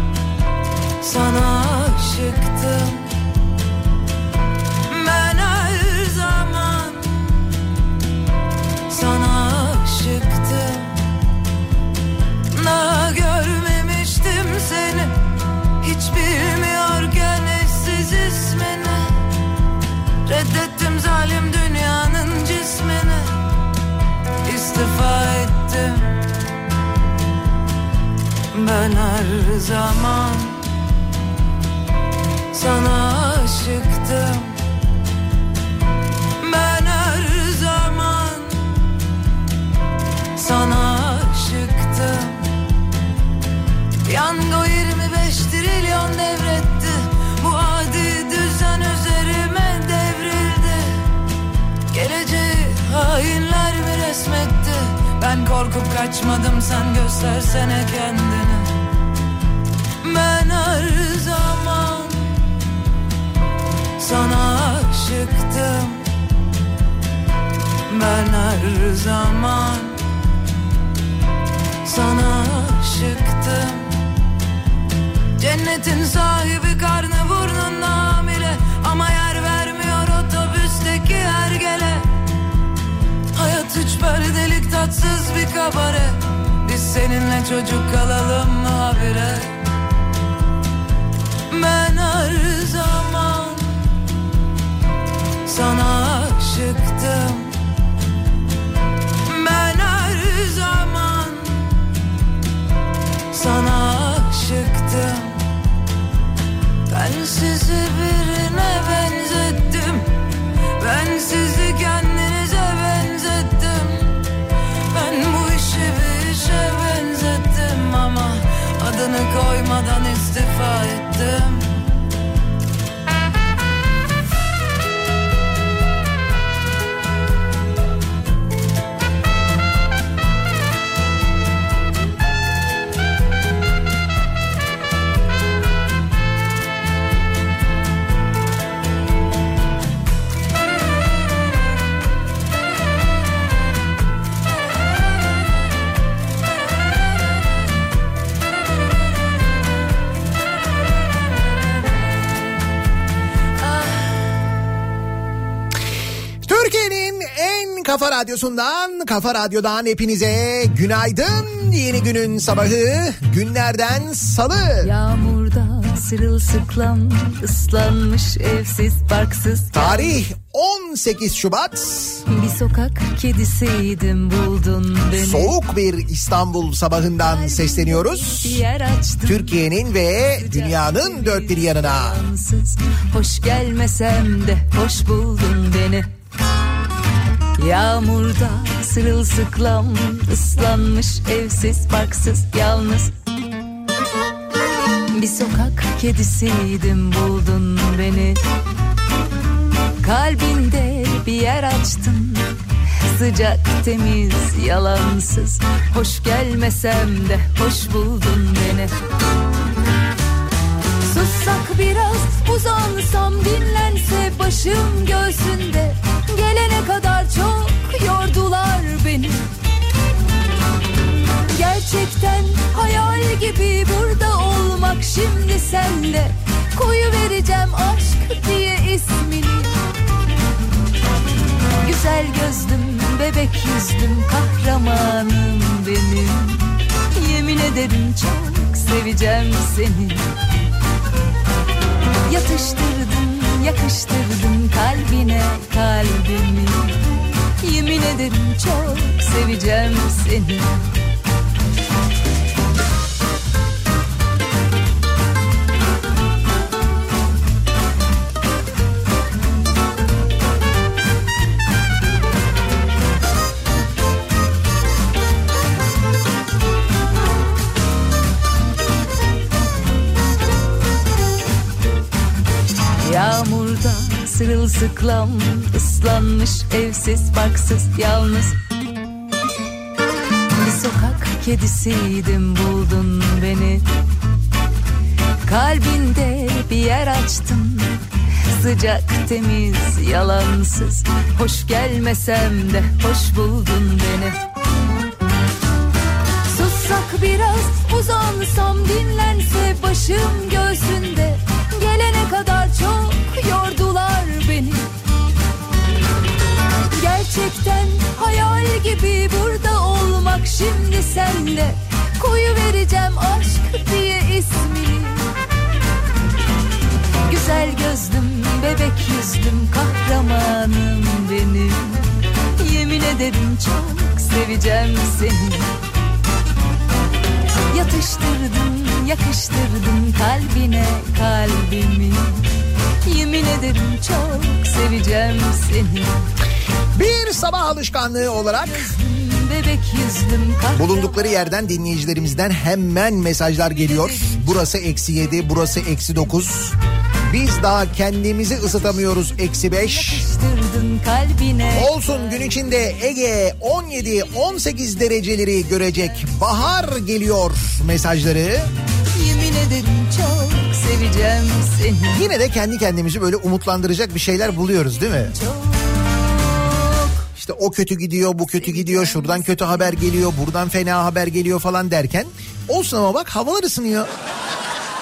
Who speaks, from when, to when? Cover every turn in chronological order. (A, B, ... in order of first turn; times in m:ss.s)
0:01.0-0:03.1 A
0:04.9-0:07.3 A
0:08.9-0:11.0 A
0:12.5-0:15.2 A
0:15.8-0:19.2 A
0:20.3-0:23.4 A
0:24.4-0:26.2 A
0:28.5-0:30.6 A
0:32.5-0:34.6 A
0:36.4-0:38.7 A
0:40.4-0:42.4 A
0:44.0-0:51.0 A
0:51.9-0:58.7 A
1:00.0-1:02.4 A
1:04.0-1:06.0 A
1:07.9-1:10.0 A
1:11.8-1:13.9 A
1:15.4-1:22.1 A
1:23.3-1:29.6 A
1:31.5-1:33.8 A
1:35.4-1:37.5 A
1:39.2-1:41.8 A
1:43.3-1:45.4 A
1:46.9-1:50.1 A
1:50.8-1:54.1 A
1:54.9-2:01.8 A
2:36.4-2:44.9 B
2:44.8-2:50.2 C
2:49.7-2:52.2 B
2:52.3-2:55.6 C
2:55.1-2:58.6 B
2:57.2-3:06.1 C
2:59.3-3:02.2 B
3:07.6-3:13.1 C
3:15.1-3:18.4 C
3:20.0-3:22.5 C
3:23.1-3:28.9 C
3:31.0-3:39.5 C
3:41.5-3:49.8 C
3:51.8-4:00.2 C
4:02.3-4:07.0 C
4:07.6-4:10.8 C
4:33.0-4:38.6 C
4:40.6-4:43.8 C
4:45.5-4:54.4 C
4:56.5-5:04.9 C
5:06.9-5:15.3 C
5:17.3-5:22.1 C
5:22.6-5:25.7 C
5:27.7-5:32.4 C
5:33.0-5:36.2 C
5:36.9-5:38.9 B
5:38.7-5:41.3 C
5:40.7-5:46.8 B
5:43.8-5:44.4 C
5:47.3-5:50.2 B
5:48.9-5:51.9 C
5:51.7-5:58.7 B
5:59.1-6:02.2 C
6:02.1-6:05.3 B
6:05.1-6:06.0 C
6:06.5-6:07.2 C
6:07.4-6:14.1 B
6:08.5-6:09.9 C